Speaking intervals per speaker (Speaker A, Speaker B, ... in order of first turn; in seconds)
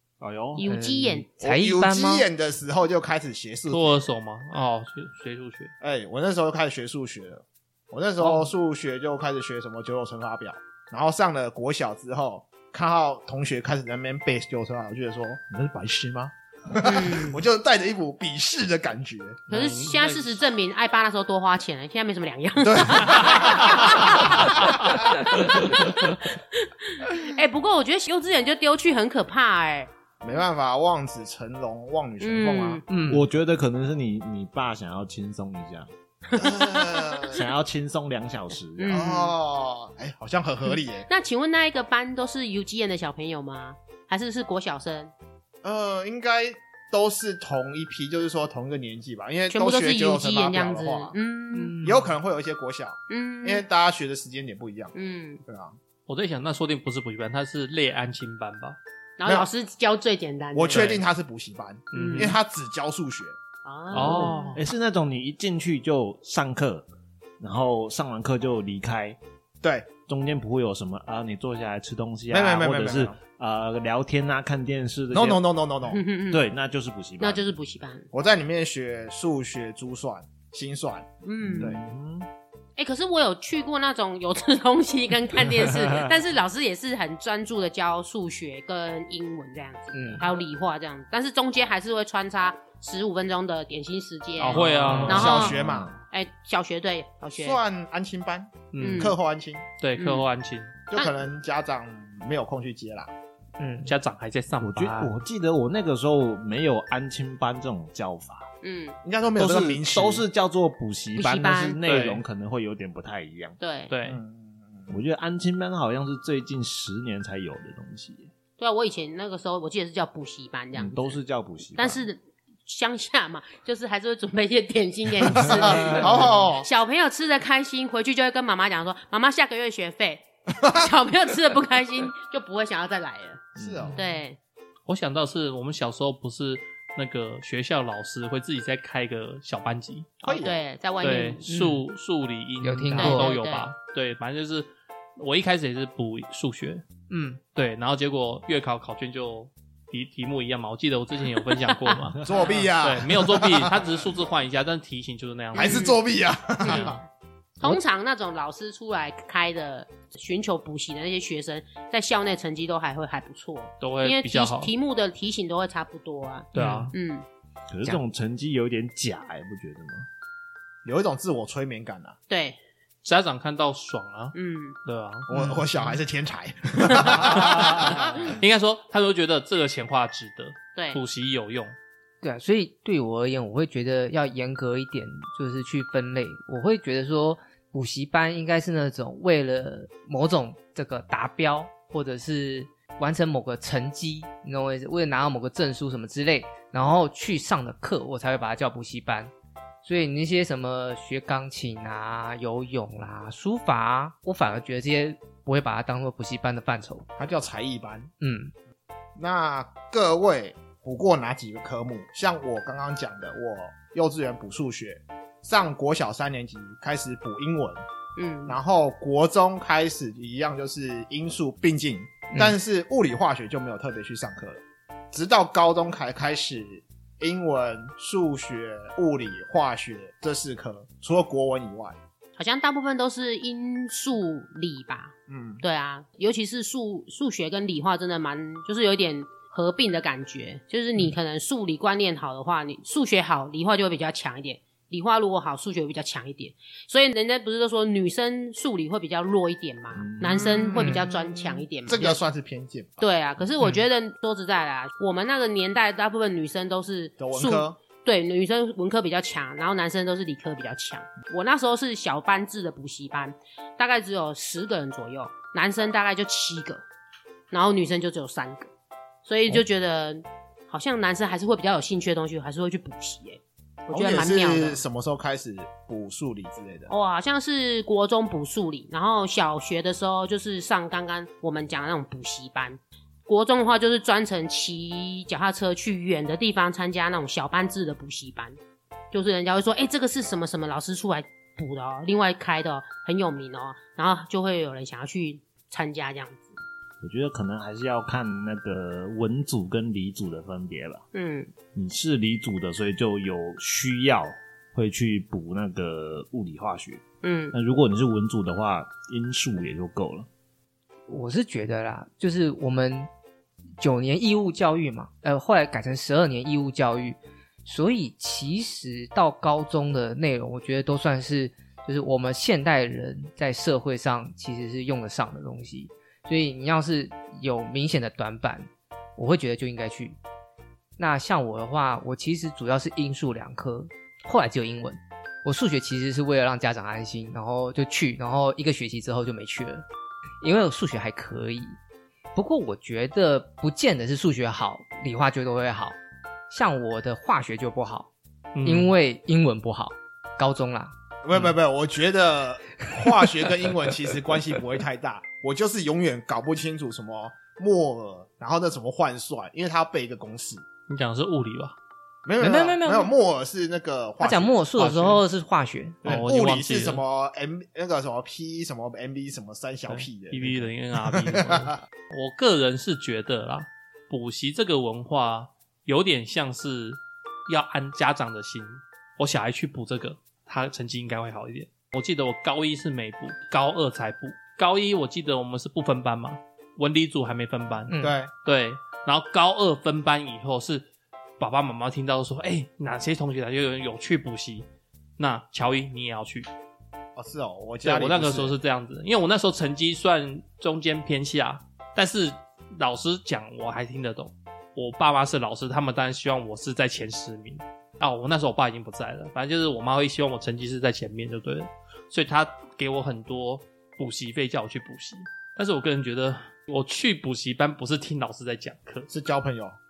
Speaker A: 0.2-0.6, 33.1-35.9, 37.3-39.0, 64.0-66.9, 67.4-69.2, 69.9-75.4, 76.3-77.5, 81.4-82.3, 85.8-86.1, 94.5-95.9, 104.6-108.5, 109.4-113.6, 114.9-118.3, 120.7-122.0, 125.4-126.3, 133.6-133.9, 167.7-170.1, 177.4-178.0, 250.0-250.4, 297.0-301.0, 301.7-310.3
Speaker B: 0.6-1.2, 16.8-17.4, 19.5-29.9, 32.2-32.8, 36.3-37.4, 38.8-39.4, 41.0-45.1, 49.5-51.8, 53.1-53.6, 54.9-55.4, 59.2-60.9, 61.9-62.4, 63.6-64.6, 75.9-76.4, 77.2-78.1, 81.2-81.8, 82.8-97.6, 98.8-99.2, 100.0-100.2, 108.6-109.0, 111.1-111.8, 113.6-113.9, 118.6-121.2, 121.7-134.4, 140.2-141.4, 142.9-143.7, 152.2-152.7, 155.5-156.0, 156.6-157.0, 157.6-167.2, 172.3-172.6, 174.3-174.8, 180.7-181.0, 218.2-218.6, 232.4-252.2, 253.0-266.8, 267.5-268.7, 269.2-274.8, 276.9-288.6, 289.1-296.6, 301.1-301.5, 307.2-307.5
Speaker C: 0.6-2.3, 32.9-33.2, 51.5-52.1, 89.9-90.2, 103.6-103.9, 141.4-141.8, 142.6-143.3, 147.1-147.4, 166.5-166.9, 182.2-199.3, 199.8-207.1, 208.2-208.5, 250.7-251.0, 311.1-313.1, 313.8-330.2, 331.0-339.8, 340.4-341.8, 342.3-345.9, 346.5-348.1, 348.6-350.9, 362.4-363.1, 364.2-366.2, 387.9-388.2
Speaker D: 1.4-4.0, 5.8-19.5, 22.6-25.3, 30.2-32.9, 36.3-37.4, 38.9-41.1, 45.6-51.1, 51.8-54.9, 55.5-55.8, 60.5-63.4, 69.6-69.9, 72.3-73.2, 75.1-76.0, 78.1-81.8, 94.9-95.9, 97.4-99.6, 100.9-103.1, 109.0-110.2, 114.0-115.0, 125.3-126.7, 133.6-134.0, 140.2-140.6, 152.2-153.8, 155.5-157.0, 170.8-172.2, 175.3-178.3, 207.2-208.1, 209.2-217.8, 218.5-232.0, 235.3-235.6, 250.3-253.0, 257.2-257.8, 273.9-276.9, 351.2-360.6, 362.2-365.2, 366.0-371.7, 388.0-388.3, 397.1-398.5, 419.1-419.8
Speaker E: 3.7-5.7, 19.5-20.4, 56.1-58.8, 60.7-61.0, 61.9-62.4, 63.9-64.6, 94.4-95.4, 98.7-99.2, 99.8-100.7, 103.8-105.1, 111.8-112.2, 113.9-114.2, 134.9-140.1, 141.0-146.8, 147.5-155.8, 156.6-156.9, 163.8-164.7, 166.5-166.9, 173.0-175.3, 177.2-181.7, 348.5-348.9, 360.9-361.7, 366.0-367.0, 369.9-390.9, 391.4-394.7, 395.2-396.5, 397.8-419.1